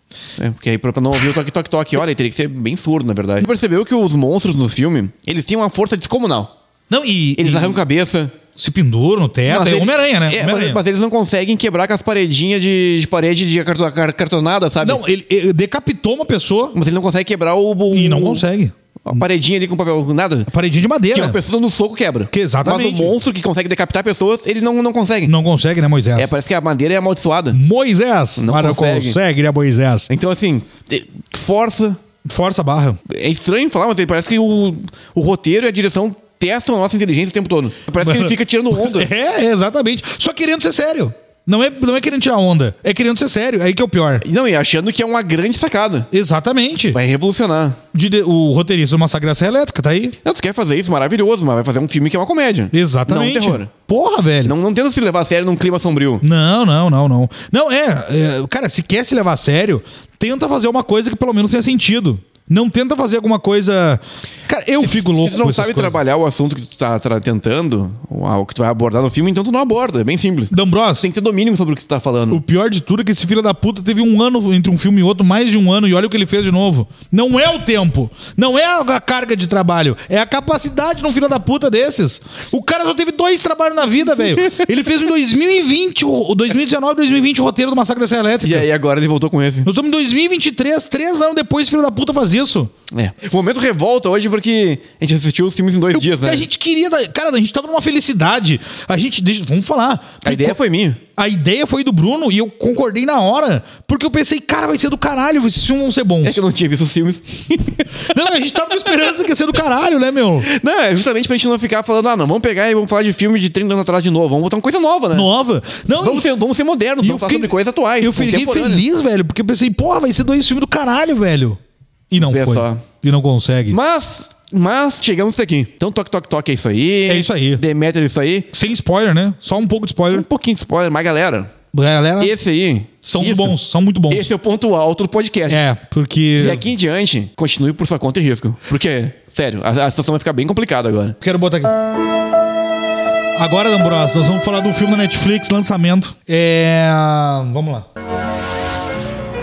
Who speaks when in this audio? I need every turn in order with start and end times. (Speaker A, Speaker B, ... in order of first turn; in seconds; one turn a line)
Speaker A: 0.4-6.5
Speaker B: 6.9-7.8
Speaker A: 7.4-8.4
Speaker B: 8.6-10.8
Speaker A: 9.5-15.0
Speaker B: 14.8-16.8
Speaker A: 16.7-18.4
Speaker B: 17.9-19.2
Speaker A: 19.1-20.5
Speaker B: 20.5-21.4
Speaker A: 21.1-25.4
Speaker B: 22.3-23.1
Speaker B: 25.3-26.4
Speaker A: 26.2-27.6
Speaker B: 27.5-30.1
Speaker A: 28.4-29.2
Speaker A: 30.1-32.0
Speaker B: 32.2-33.0
Speaker A: 33.1-39.1
Speaker B: 38.0-44.2
Speaker A: 44.2-46.1
Speaker B: 46.1-47.0
Speaker A: 46.9-47.8
Speaker B: 47.9-50.2
Speaker A: 50.2-53.7
Speaker B: 52.7-54.5
Speaker A: 54.5-56.2
Speaker B: 56.2-66.0
Speaker A: 64.8-72.4
Speaker B: 70.5-71.1
Speaker B: 72.3-88.7
Speaker A: 88.4-89.7
Speaker B: 89.7-92.7
Speaker A: 92.9-96.5
Speaker B: 95.9-100.6
Speaker A: 100.2-101.0
Speaker B: 101.2-106.4
Speaker A: 106.2-108.1
Speaker B: 108.0-110.5
Speaker A: 110.4-115.3
Speaker B: 115.1-116.3
Speaker A: 116.0-118.8
Speaker B: 117.0-121.6
Speaker B: 122.1-123.8
Speaker A: 122.2-122.8
Speaker A: 123.7-128.5
Speaker B: 127.1-127.6
Speaker B: 128.5-130.3
Speaker A: 130.1-131.5
Speaker B: 131.7-132.3
Speaker A: 132.2-133.6
Speaker B: 133.0-134.3
Speaker A: 134.1-135.6
Speaker B: 135.5-136.6
Speaker A: 136.4-141.2
Speaker B: 141.2-141.8
Speaker B: 143.4-147.9